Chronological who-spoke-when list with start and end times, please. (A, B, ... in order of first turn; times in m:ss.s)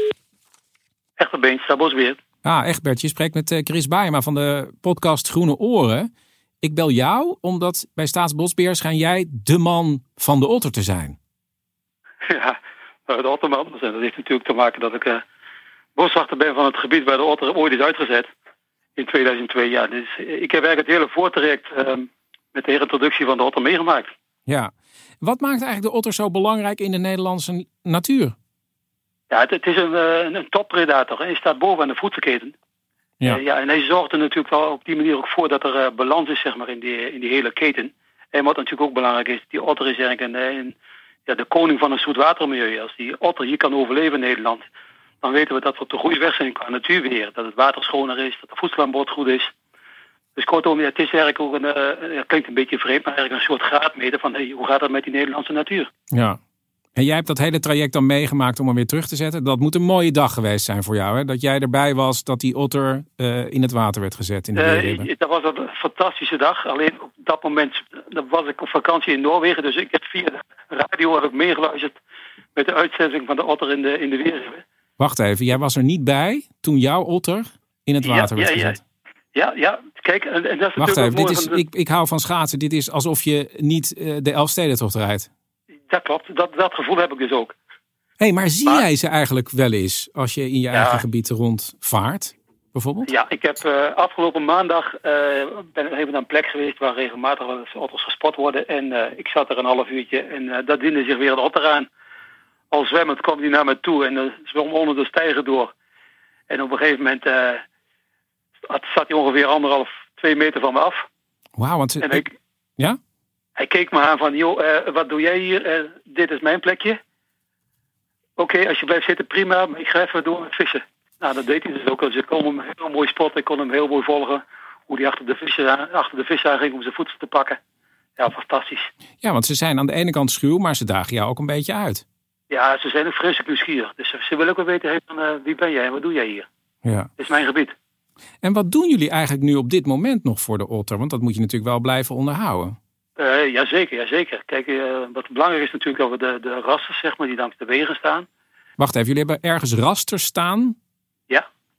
0:01.2-0:02.2 A
0:02.4-0:06.1 B
0:06.6-0:11.2 B
0:12.2-0:15.2 A
0:16.0-0:18.3 A
0:19.0-0:24.1 A
0:24.5-0:28.4 B
0:29.3-0:32.5 A
0:33.2-0:40.7 A
0:41.3-0:44.6 A
0:45.2-0:49.5 A
0:50.4-0:55.9 A
0:56.1-0:56.4 B
0:57.0-1:05.1 B
1:04.6-1:12.0 A
1:12.6-1:14.6 A
1:15.0-1:18.8 B
1:18.0-1:18.8 A
1:19.3-1:21.6 A
1:20.8-1:25.3 B
1:25.9-1:27.5 A
1:28.2-1:33.1 B
1:30.7-1:31.0 A
1:33.1-1:41.9 A
1:42.7-1:45.7 A
1:46.5-1:47.6 A
1:48.7-1:51.0 A
1:51.6-1:52.2 B
1:52.0-1:52.3 A
1:53.6-1:57.0 A
1:58.4-2:07.6 A
2:08.2-2:08.9 A
2:09.2-2:12.0 B
2:12.5-2:16.5 A
2:16.8-2:17.1 B
2:17.2-2:17.7 A
2:18.4-2:22.8 B
2:23.2-2:28.3 A
2:28.8-2:30.8 B